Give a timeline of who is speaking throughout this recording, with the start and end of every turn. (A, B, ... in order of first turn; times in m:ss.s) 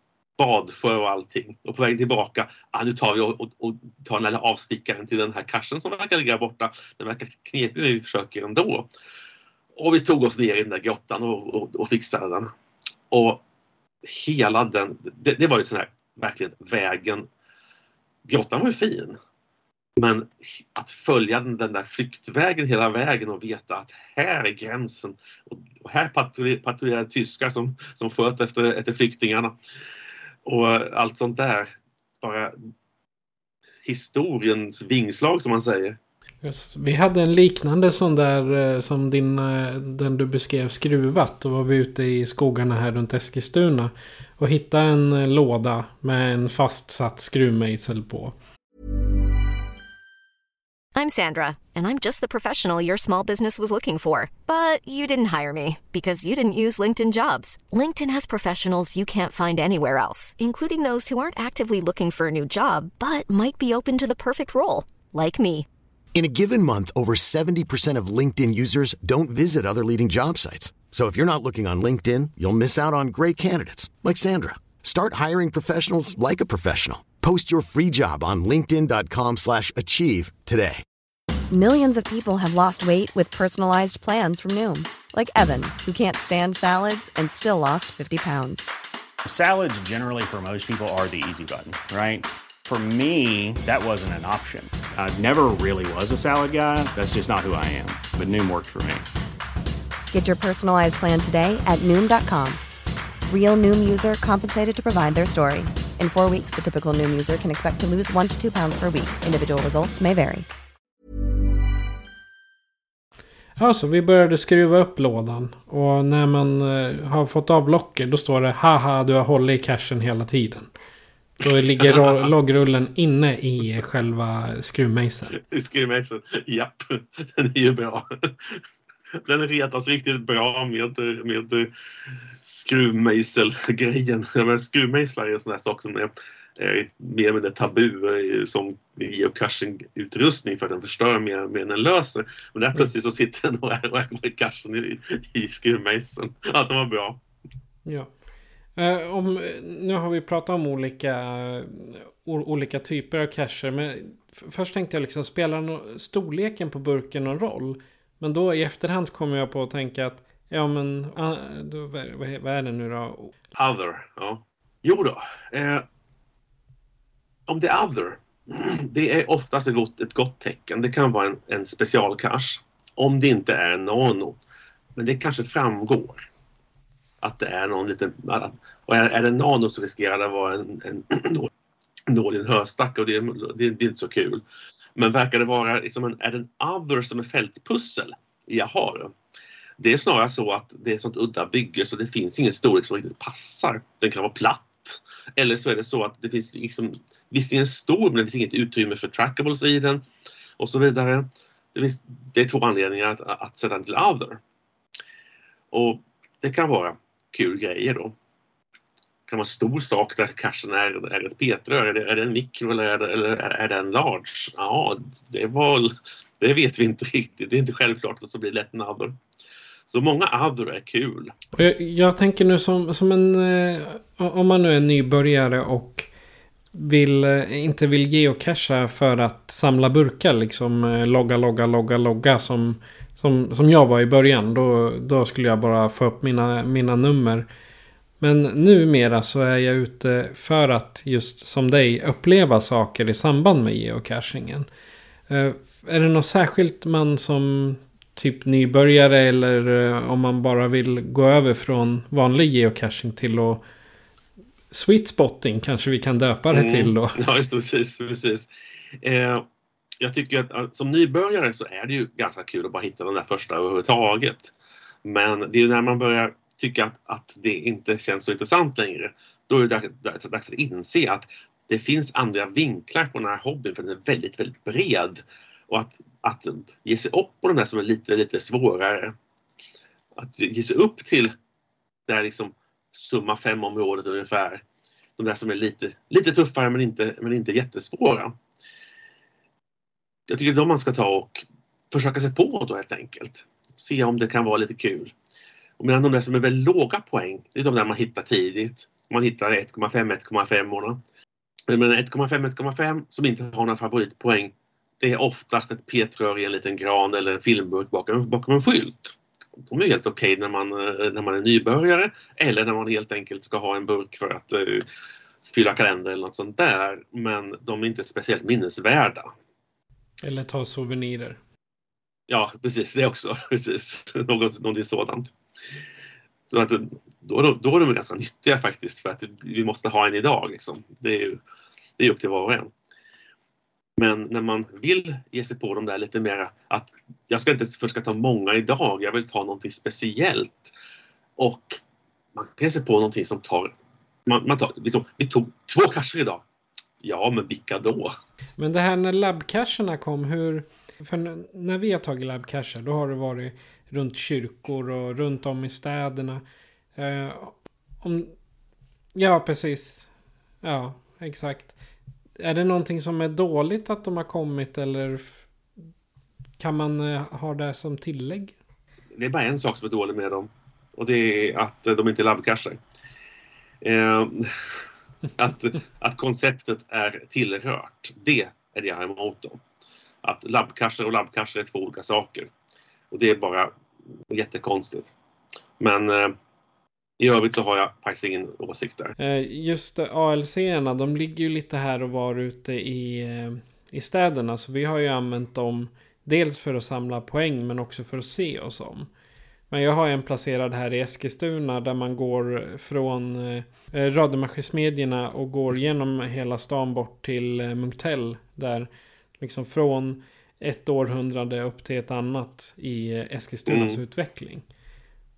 0:00.4-0:08.9 A
0:09.8-0:12.5 A
0:13.1-0:13.4 A
0:14.0-0:17.3 A
0:18.2-0:19.2 A
0:20.0-0:29.6 A
0:30.4-0:32.6 A
0:33.8-0:36.0 A
0:36.4-0:48.4 B
0:51.0-1:05.7 C
1:06.1-1:20.8 D
1:21.5-1:28.7 E
1:29.2-1:39.1 F
1:40.1-1:42.6 E
1:43.3-1:50.5 E
1:53.6-2:00.7 B
2:01.4-2:05.4 B
2:01.8-2:02.2 A
2:05.4-2:08.6 A
2:09.2-2:11.7 A
2:12.4-2:27.2 A
2:27.9-2:28.1 B
2:28.8-2:43.3 B
2:43.6-2:45.9 A
2:47.5-2:54.4 A
2:55.0-2:56.2 A
2:57.2-3:01.5 A
3:02.1-3:04.4 A
3:05.0-3:09.1 A
3:09.8-3:20.0 A
3:20.6-3:24.4 A
3:25.7-3:28.2 A
3:29.3-3:39.2 A
3:39.9-3:41.3 A
3:41.6-3:46.1 B
3:46.7-3:57.5 B
3:58.2-4:04.7 B
4:05.3-4:13.6 B
4:14.7-4:17.2 B
4:16.5-4:18.5 A
4:19.0-4:19.5 A
4:20.0-4:24.5 A
4:25.0-4:39.2 A
4:40.2-4:41.3 A
4:42.1-4:44.6 A
4:45.2-4:48.3 A
4:50.3-4:55.1 A
4:55.8-5:01.0 A
5:01.7-5:09.2 A
5:09.7-5:14.9 A
5:15.4-5:19.3 A
5:20.2-5:21.4 B
5:22.3-5:25.3 A
5:26.5-5:31.4 A
5:32.0-5:32.7 A
5:34.0-5:40.7 A
5:41.4-5:41.8 A
5:42.4-5:43.7 A
5:44.3-5:46.4 A
5:47.0-5:48.1 A
5:48.6-5:56.4 B
5:57.0-5:58.3 B
5:59.2-6:00.1 B
6:00.6-6:01.7 B
6:02.4-6:05.5 B
6:06.6-6:08.6 B
6:09.2-6:12.8 A
6:13.8-6:14.8 A
6:15.4-6:19.6 A
6:20.2-6:22.5 A
6:23.1-6:23.7 A
6:24.3-6:25.1 A
6:25.8-6:26.4 A
6:27.2-6:29.2 A
6:29.2-6:39.1 B
6:39.7-6:54.7 B
6:53.7-6:54.0 A